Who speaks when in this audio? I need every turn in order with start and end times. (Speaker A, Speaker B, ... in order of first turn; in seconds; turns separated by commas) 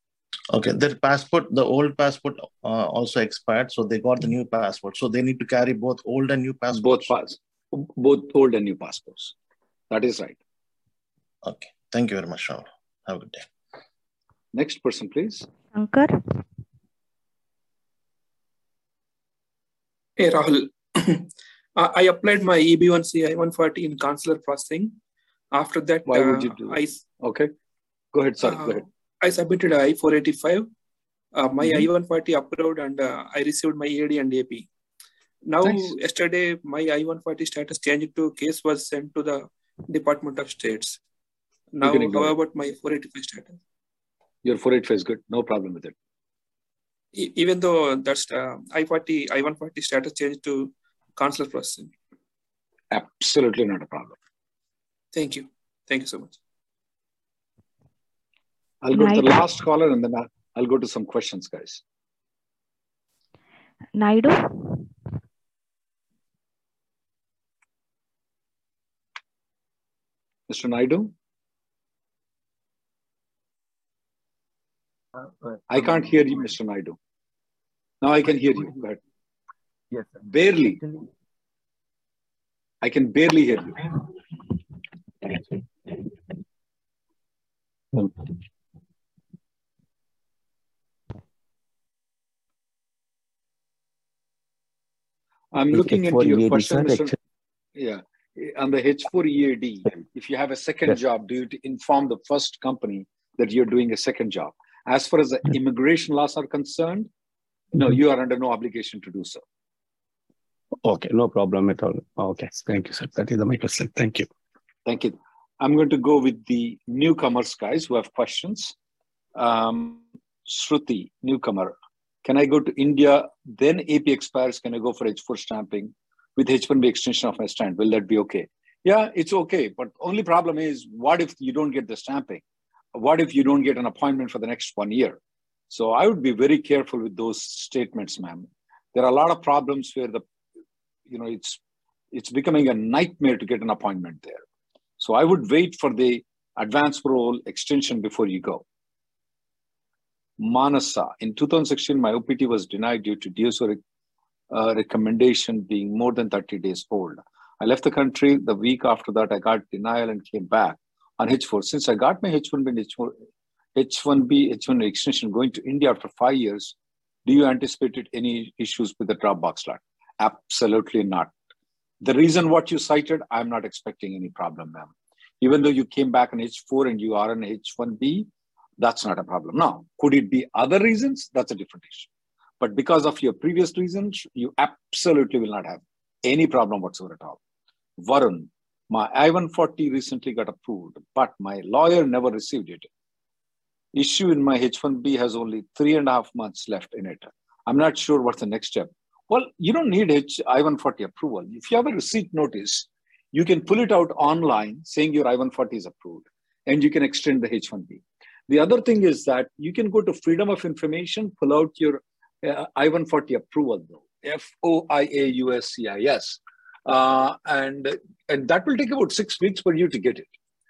Speaker A: 0.5-7.1, Speaker B: 6.7-9.3, Speaker B: 9.9-10.4, Speaker A: 11.4-13.4, Speaker B: 14.5-15.4, Speaker C: 15.6-16.4, Speaker D: 20.2-24.9, Speaker D: 25.5-27.1, Speaker B: 26.1-27.5, Speaker B: 28.1-28.8, Speaker D: 28.4-30.7, Speaker D: 31.3-34.7, Speaker B: 31.6-31.9, Speaker D: 35.5-41.0, Speaker B: 35.6-35.9, Speaker D: 41.7-43.6, Speaker B: 41.8-42.4, Speaker B: 44.4-45.9, Speaker D: 47.1-51.9, Speaker B: 52.9-54.1, Speaker D: 55.1-56.4, Speaker B: 58.8-61.8, Speaker C: 58.9-59.5, Speaker C: 63.9-64.9, Speaker B: 70.5-71.1, Speaker B: 75.7-77.0, Speaker B: 78.0-79.0, Speaker B: 80.2-80.8, Speaker B: 82.8-84.0, Speaker B: 95.5-97.2, Speaker E: 95.7-97.1, Speaker B: 97.8-107.1, Speaker B: 107.7-109.4, Speaker E: 110.8-114.3, Speaker B: 114.8-118.7, Speaker B: 119.3-132.4, Speaker B: 132.9-135.2, Speaker B: 135.7-140.2, Speaker B: 141.1-141.6, Speaker B: 142.1-144.4, Speaker B: 145.0-148.6, Speaker B: 150.4-153.8, Speaker B: 154.5-163.1, Speaker B: 163.8-166.7, Speaker B: 167.2-171.3, Speaker B: 172.0-178.3, Speaker B: 178.8-182.1, Speaker B: 182.6-187.4, Speaker B: 188.0-192.9, Speaker B: 193.9-220.3